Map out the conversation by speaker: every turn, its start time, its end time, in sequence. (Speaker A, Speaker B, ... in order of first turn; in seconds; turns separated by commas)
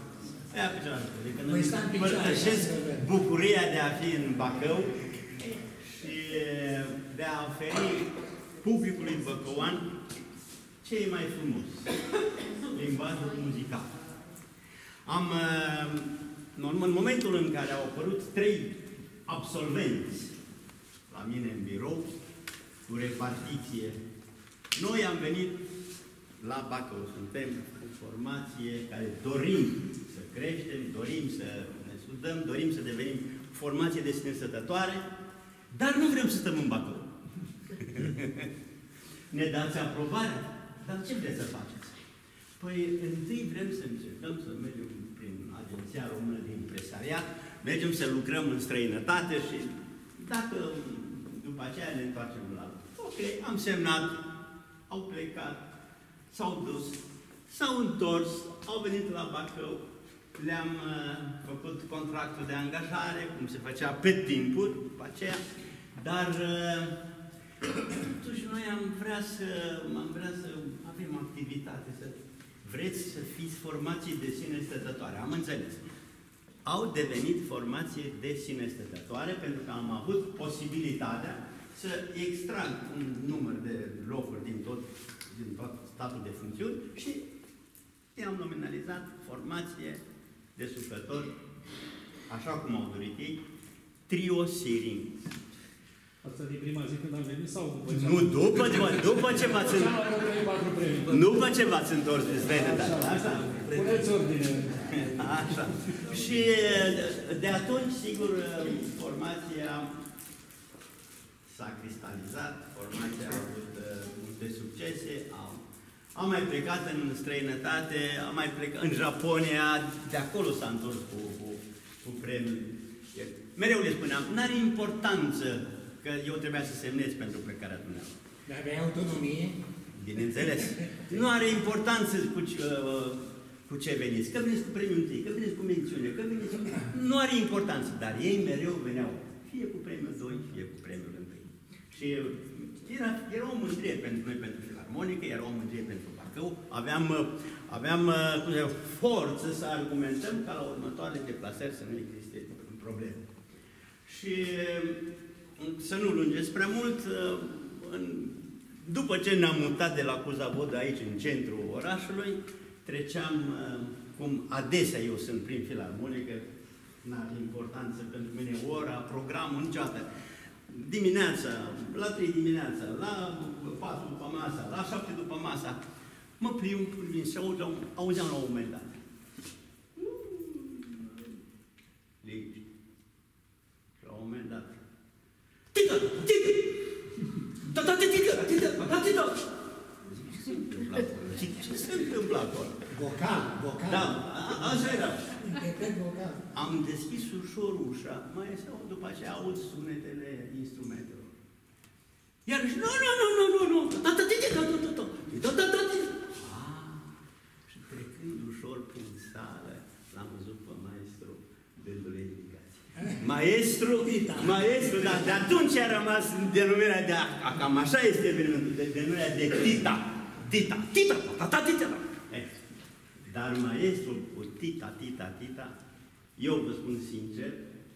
Speaker A: 0.5-9.9, Speaker B: 1.5-3.1, Speaker A: 10.8-11.9, Speaker A: 12.6-14.0, Speaker A: 15.1-20.3, Speaker A: 21.1-22.1, Speaker A: 22.8-24.0, Speaker A: 24.7-25.6, Speaker A: 26.4-35.0, Speaker A: 35.7-37.1, Speaker A: 37.7-38.5, Speaker A: 39.3-42.0, Speaker A: 42.6-54.2, Speaker A: 54.9-55.7, Speaker A: 56.3-65.4, Speaker A: 65.9-67.0, Speaker A: 67.7-75.8, Speaker A: 76.6-87.3, Speaker A: 88.1-90.0, Speaker A: 90.5-91.3, Speaker A: 92.3-93.4, Speaker A: 94.1-95.3, Speaker C: 96.2-101.7, Speaker A: 97.9-100.0, Speaker A: 101.1-104.0, Speaker C: 102.4-106.0, Speaker A: 104.8-109.9, Speaker A: 111.5-115.6, Speaker A: 116.1-128.2, Speaker B: 128.5-129.6, Speaker A: 129.9-153.3, Speaker A: 154.0-166.5, Speaker A: 167.0-170.1, Speaker A: 170.7-175.8, Speaker A: 176.4-179.0, Speaker A: 179.9-181.3, Speaker A: 182.2-182.6, Speaker A: 184.0-184.8, Speaker A: 185.7-186.8, Speaker A: 187.5-189.5, Speaker A: 190.0-192.9, Speaker B: 192.9-194.2, Speaker A: 193.8-195.6, Speaker B: 195.4-196.4, Speaker A: 196.5-201.3, Speaker A: 202.4-207.2, Speaker A: 207.7-222.6, Speaker A: 223.2-225.7, Speaker A: 226.4-227.7